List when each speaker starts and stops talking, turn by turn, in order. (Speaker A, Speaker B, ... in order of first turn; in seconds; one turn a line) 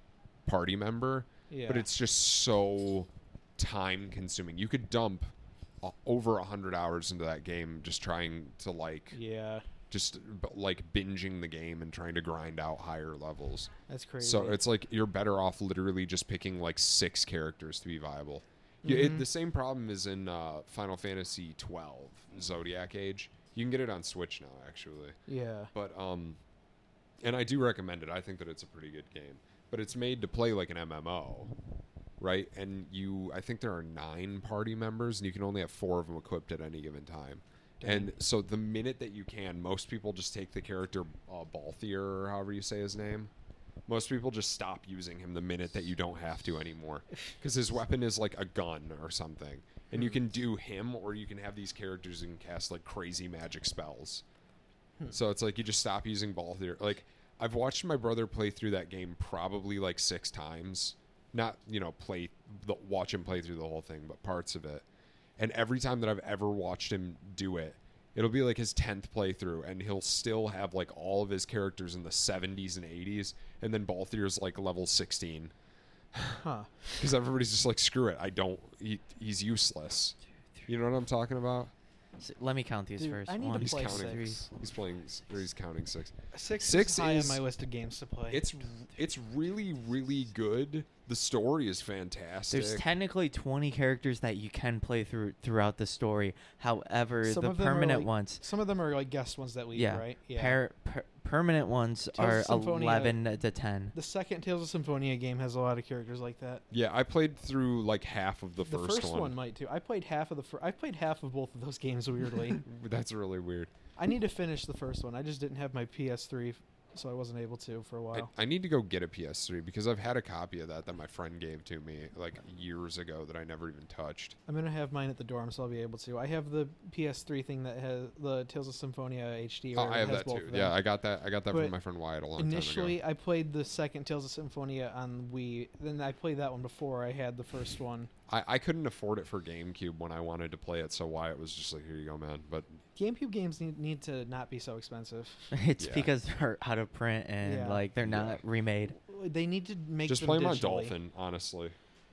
Speaker A: 0.5-9.2
Speaker B: 1.5-1.9
Speaker B: 9.1-9.7
Speaker A: 9.9-25.2
Speaker B: 13.9-14.6
Speaker B: 18.8-19.2
Speaker B: 25.3-25.7
Speaker A: 25.7-26.4
Speaker A: 27.2-31.5
Speaker A: 32.2-43.3
Speaker B: 37.8-38.1
Speaker A: 43.9-54.2
Speaker B: 49.9-50.2
Speaker A: 55.1-64.8
Speaker A: 65.4-75.5
Speaker A: 76.1-76.4
Speaker B: 76.4-76.9
Speaker A: 76.9-81.7
Speaker C: 82.2-84.5
Speaker B: 83.0-84.5
Speaker A: 83.6-87.4
Speaker B: 86.3-88.4
Speaker A: 88.3-92.8
Speaker C: 92.5-98.4
Speaker B: 97.2-100.6
Speaker C: 99.7-103.9
Speaker B: 102.1-103.2
Speaker B: 103.9-106.6
Speaker A: 106.7-109.3
Speaker B: 108.6-112.6
Speaker A: 112.6-113.7
Speaker B: 114.0-118.3
Speaker A: 118.1-124.4
Speaker B: 124.5-130.8
Speaker A: 129.7-133.0
Speaker B: 132.4-138.1
Speaker A: 138.3-142.8
Speaker B: 142.9-145.5
Speaker C: 145.5-148.9
Speaker A: 145.8-146.1
Speaker B: 147.4-147.8
Speaker A: 148.0-148.4
Speaker B: 149.0-150.9
Speaker A: 150.1-151.8